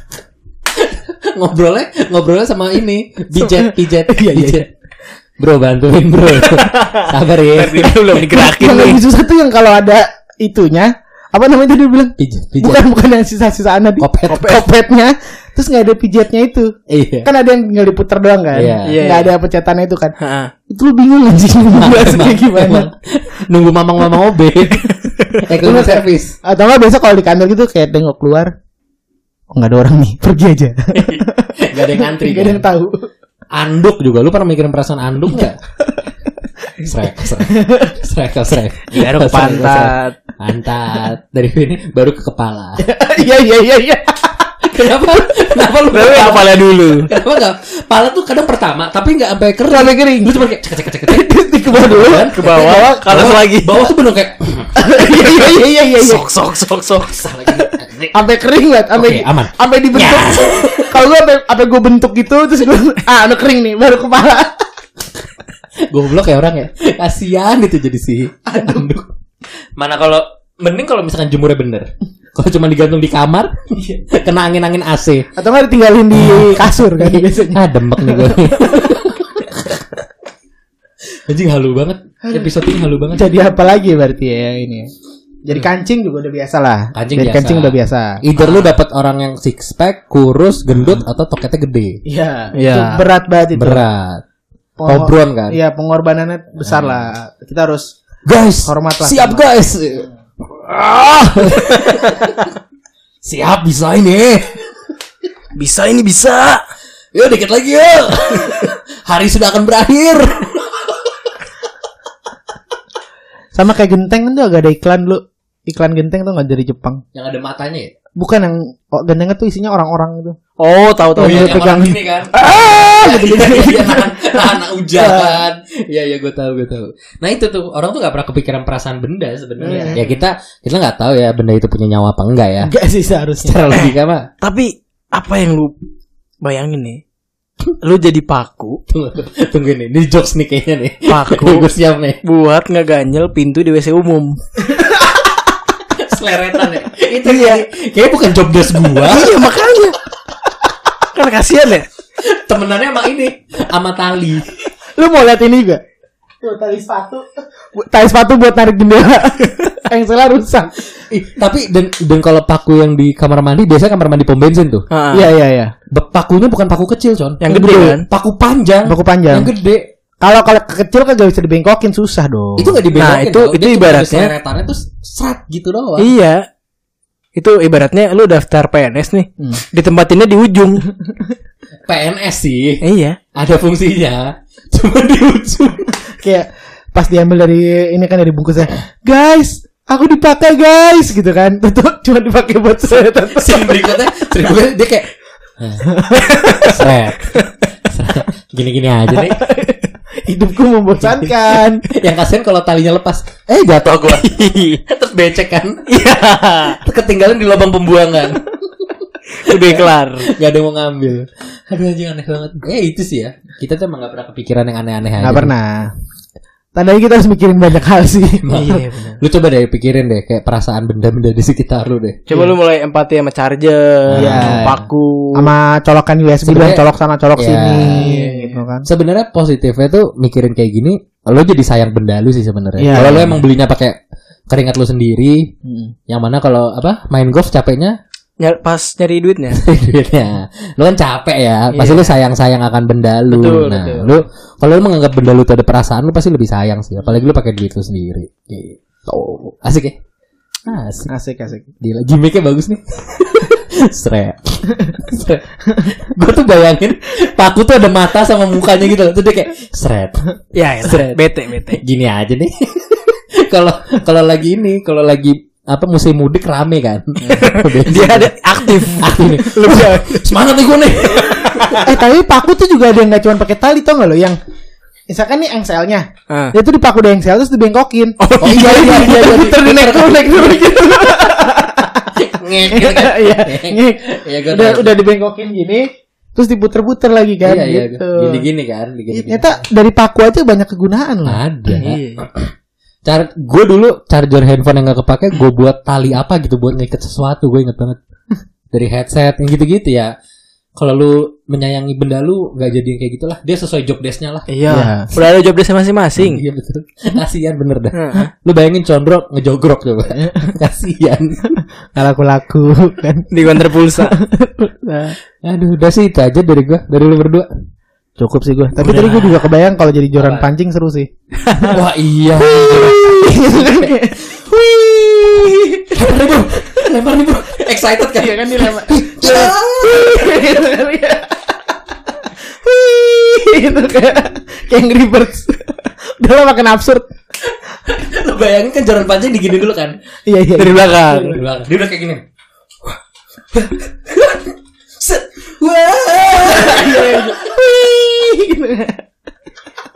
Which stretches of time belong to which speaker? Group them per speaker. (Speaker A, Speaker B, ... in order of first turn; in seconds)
Speaker A: 0.7-4.7, 5.4-8.0, 12.2-12.8, 14.0-14.6, 16.9-17.3, 18.5-19.0, 21.7-26.4, 30.9-32.7, 33.5-35.6, 36.8-42.8, 44.6-54.7, 56.9-58.1, 58.9-61.0, 65.8-69.1, 69.8-75.3, 76.1-79.8, 81.1-83.3, 86.9-92.0, 93.5-94.2, 94.8-95.6, 96.6-97.0, 98.2-102.5, 103.2-104.7, 107.1-111.0, 117.1-117.9, 121.2-132.7, 133.4-134.3, 138.9-142.2, 145.9-149.4, 152.2-154.5, 161.0-164.8, 165.9-169.8, 172.6-176.1, 181.9-182.8, 183.3-186.0, 193.0-199.5, 201.1-205.9, 206.7-208.9, 209.4-215.5, 218.4-222.4, 224.1-224.9, 226.4-226.8, 227.3-228.1, 228.8-235.5, 236.1-237.9, 239.5-250.0, 250.7-251.1, 251.8-271.9, 278.4-280.8, 282.1-285.0, 287.4-289.5, 291.2-292.5, 293.0-298.0, 298.7-300.1, 300.8-304.5, 306.1-311.6, 315.4-317.5, 318.8-319.6, 320.1-320.5, 321.6-330.4, 337.8-339.9, 341.3-342.2, 343.5-347.6
Speaker B: 3.4-4.7, 8.1-16.7, 17.2-20.1, 20.7-22.9, 25.6-28.5, 29.5-33.1, 37.4-37.9, 42.8-44.5, 49.7-50.4, 51.1-53.0, 54.8-56.3, 58.1-64.6, 68.5-68.9, 75.3-79.1, 82.2-82.5, 83.1-84.9, 85.4-88.2, 92.0-93.8, 94.8-97.9, 98.6-99.5, 113.5-117.0, 118.2-120.4, 121.2-125.4, 129.7-130.0, 132.6-133.8, 154.9-155.8, 156.4-160.8, 165.1-165.7, 168.8-169.5, 170.2-172.8, 186.2-194.3, 195.8-196.7, 199.3-201.8, 215.2-215.9, 216.8-218.7, 224.1-224.7, 225.3-228.8, 232.8-233.4, 251.1-251.7, 271.8-274.4, 275.1-288.4, 289.1-291.4, 304.7-305.1, 311.5-315.1, 318.2-321.1, 322.4-326.7, 328.1-331.5, 332.1-337.1, 340.3-341.4, 346.4-349.0
Speaker C: 6.5-9.0, 18.8-19.3, 20.2-20.5, 38.9-40.1, 45.9-47.1, 52.3-53.8, 55.0-57.1, 88.4-88.7, 92.5-93.0, 101.3-102.1, 105.5-106.6, 120.6-121.6, 129.6-130.2, 134.4-135.7, 136.4-137.0, 137.8-138.8, 141.1-141.7, 142.2-144.4, 147.2-147.6, 149.0-149.9, 151.1-151.9, 164.9-165.3, 167.4-168.0, 172.9-174.3, 176.0-176.4, 177.3-180.8, 182.8-183.2, 204.1-204.8, 205.9-206.8, 209.3-210.3, 218.5-219.2, 222.3-225.5, 228.0-228.6, 238.4-239.6, 241.7-242.1, 243.3-244.1, 260.5-261.8, 267.3-270.3, 271.2-271.8, 278.2-280.5, 291.8-292.3, 304.5-306.4, 307.9-308.3, 313.3-314.1, 321.4-321.8, 340.6-341.4